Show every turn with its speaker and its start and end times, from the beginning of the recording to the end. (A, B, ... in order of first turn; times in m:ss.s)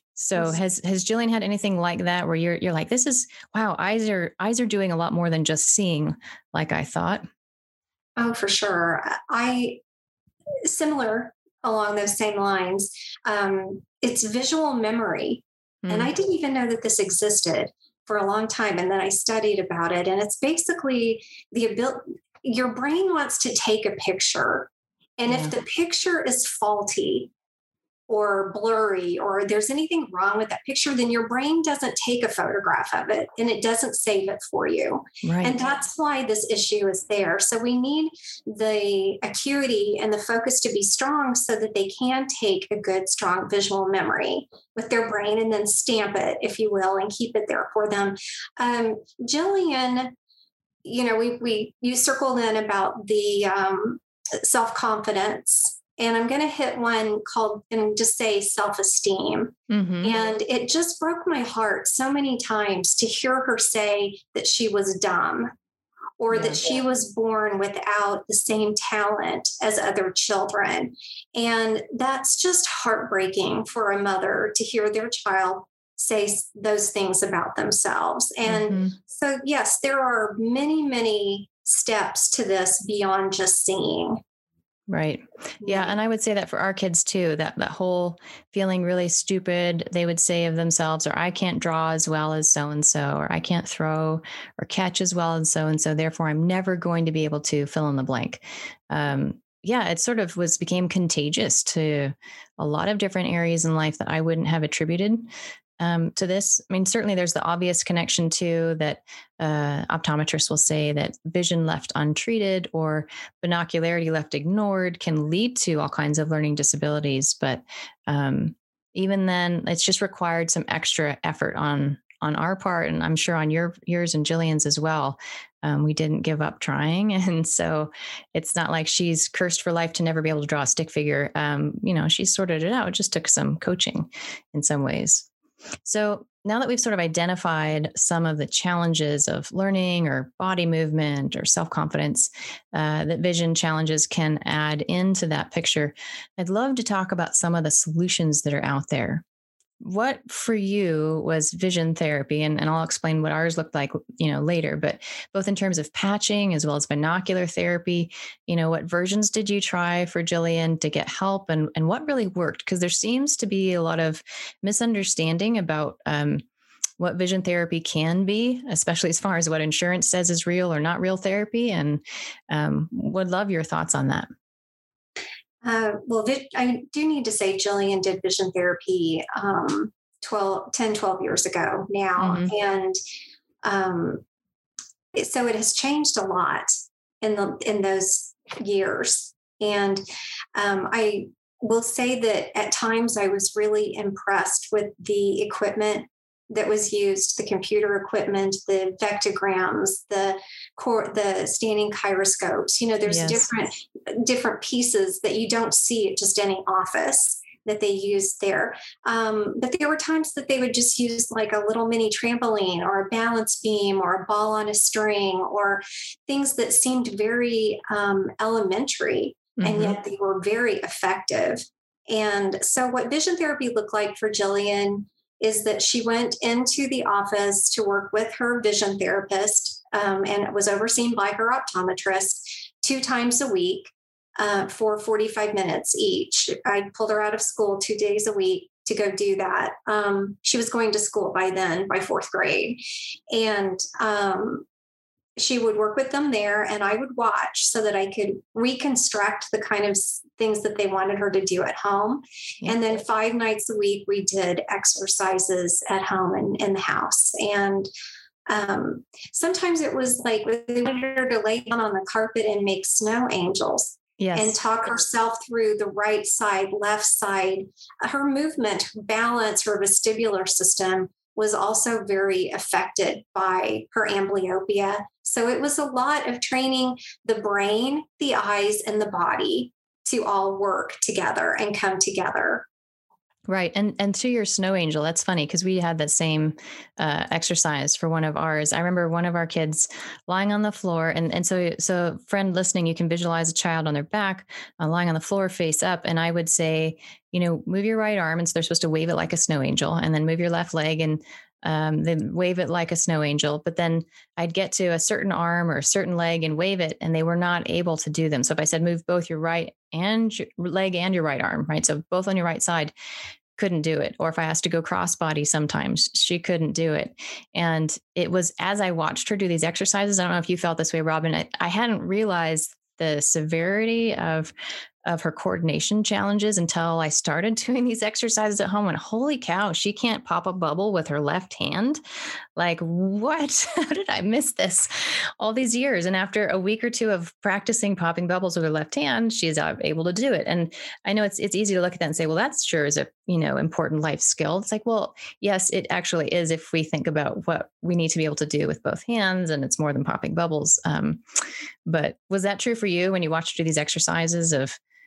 0:00.1-0:07.2 A
0:08.2-0:09.8 B
0:10.6-0:27.3 B
0:15.8-0:16.1 A
0:25.3-0:25.5 A
0:28.1-0:50.1 B
0:35.2-0:35.6 A
0:50.8-1:05.5 B
0:59.7-1:00.1 A
1:06.2-1:24.2 B
1:06.3-1:06.6 A
1:18.4-1:18.9 A
1:24.9-1:45.2 A
1:25.6-1:26.0 B
1:45.8-2:15.3 A
2:15.8-2:29.2 A
2:29.8-2:46.4 A
2:47.0-2:54.3 A
2:55.6-3:03.0 B
3:02.2-3:02.5 A
3:03.6-3:04.2 B
3:05.1-3:10.0 B
3:10.6-4:04.6 B
3:23.1-3:23.5 A
3:39.6-3:40.0 A
4:05.4-4:17.9 B
4:18.5-4:42.7 B
4:24.2-4:24.6 A
4:43.5-5:12.9 A
5:13.6-5:24.5 A
5:25.0-5:32.0 A
5:32.6-5:51.2 A
5:51.9-5:54.8 A